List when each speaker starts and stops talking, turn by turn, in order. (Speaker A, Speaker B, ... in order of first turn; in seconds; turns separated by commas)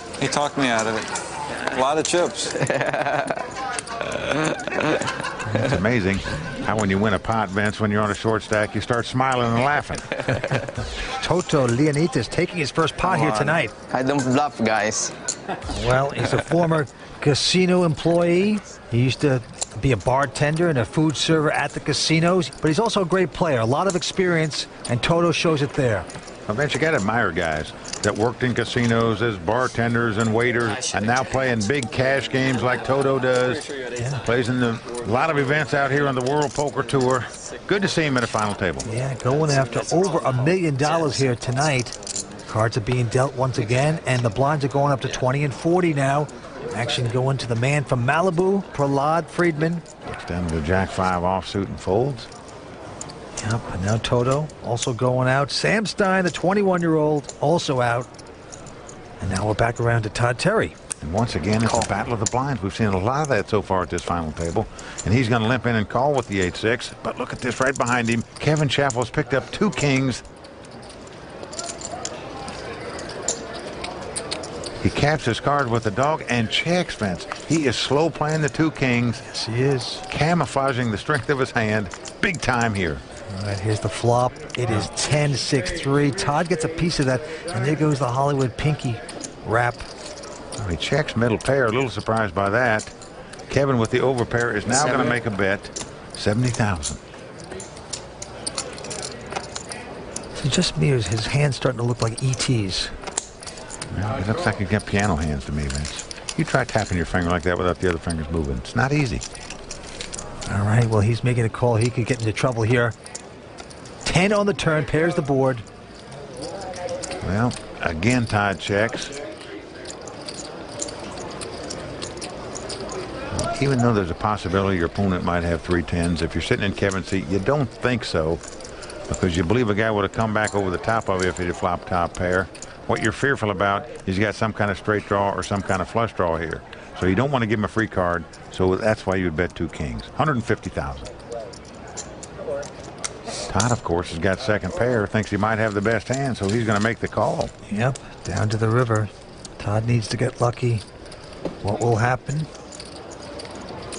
Speaker A: 0.2-2.6, Speaker B: 2.7-3.4, Speaker C: 5.5-10.2, Speaker D: 11.1-13.7, Speaker B: 13.9-15.1, Speaker D: 15.7-26.1, Speaker C: 26.5-38.9, Speaker D: 33.9-34.2, Speaker D: 38.8-41.9, Speaker D: 42.5-49.9, Speaker C: 50.0-52.3, Speaker D: 53.4-58.1, Speaker D: 59.2-60.8, Speaker C: 61.0-70.2, Speaker C: 74.8-79.2, Speaker D: 79.2-80.0, Speaker C: 80.1-83.0, Speaker D: 83.3-89.9, Speaker C: 90.6-92.9, Speaker C: 93.5-97.0, Speaker D: 100.3-102.9, Speaker C: 103.9-109.2, Speaker D: 110.5-113.0, Speaker D: 114.0-115.6, Speaker C: 117.2-119.1, Speaker C: 123.3-128.4, Speaker C: 129.1-141.1, Speaker C: 143.5-147.5, Speaker D: 147.7-150.8, Speaker D: 151.6-152.5